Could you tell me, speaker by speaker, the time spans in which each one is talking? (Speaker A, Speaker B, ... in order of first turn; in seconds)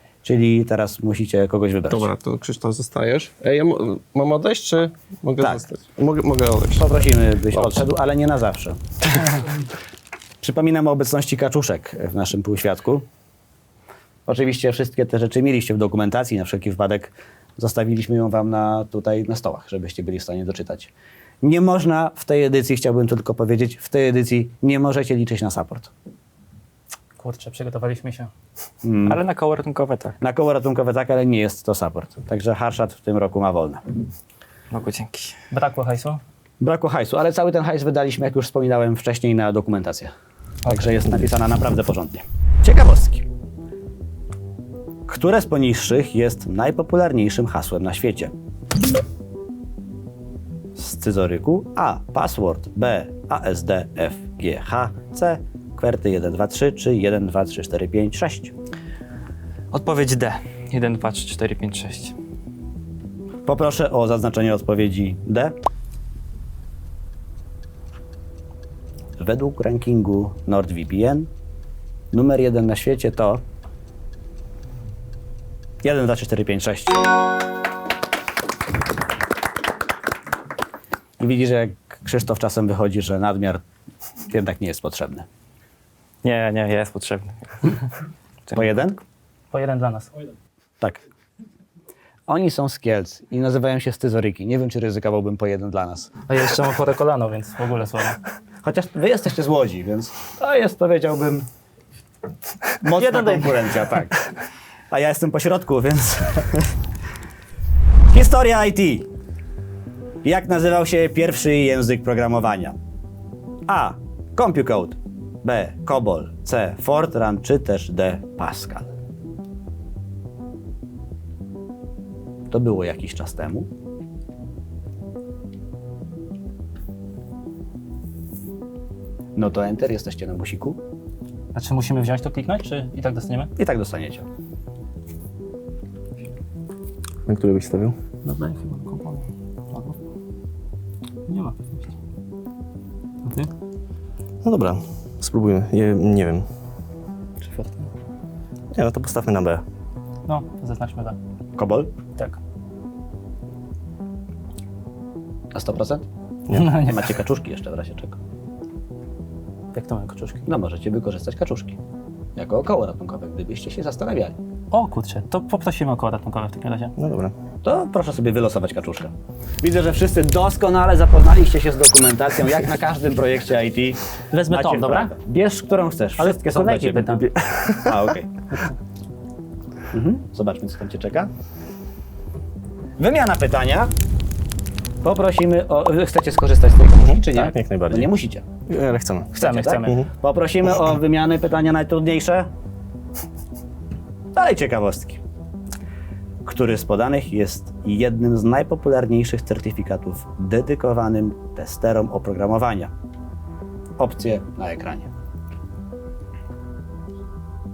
Speaker A: 0.2-2.1, 6.8-8.8, 10.4-13.1, 14.3-20.9, 21.4-25.9, 28.8-29.2, 30.2-33.8, 36.6-40.1, 40.6-43.3, 45.1-48.3, 50.8-58.5, 63.5-65.5, 69.2-71.3, 72.1-73.4, 75.8-77.0, 81.2-83.6, 84.3-85.3, 88.5-89.0, 92.3-96.1, 98.6-101.5, 102.8-104.2, 104.9-106.7, 108.1-109.1, 110.2-112.8, 113.7-118.9, 122.5-123.7, 129.4-130.8, 133.6-134.3, 151.6-151.9, 155.5-158.2, 160.5-161.8, 162.4-164.4, 167.6-177.2, 177.8-178.3, 179.9-181.3, 183.0-183.9, 185.0-188.4, 189.3-192.5, 194.3-195.2, 196.4-202.9, 204.0-205.1
Speaker B: 1.9-7.0
Speaker C: 27.2-28.3, 35.5-36.2, 89.5-90.1, 96.3-98.2, 103.0-103.6, 131.5-133.5, 138.2-140.0, 141.3-141.8, 147.4-147.9, 150.3-151.2, 156.5-157.0, 159.7-160.5, 164.7-166.9, 174.3-175.1, 176.2-177.3, 189.4-190.0
Speaker D: 29.1-30.2, 34.7-35.4, 59.7-62.1, 86.2-87.8
Speaker E: 137.3-138.0, 144.4-146.5, 148.7-149.6, 167.0-167.3, 177.3-178.0, 187.0-188.1, 188.7-190.1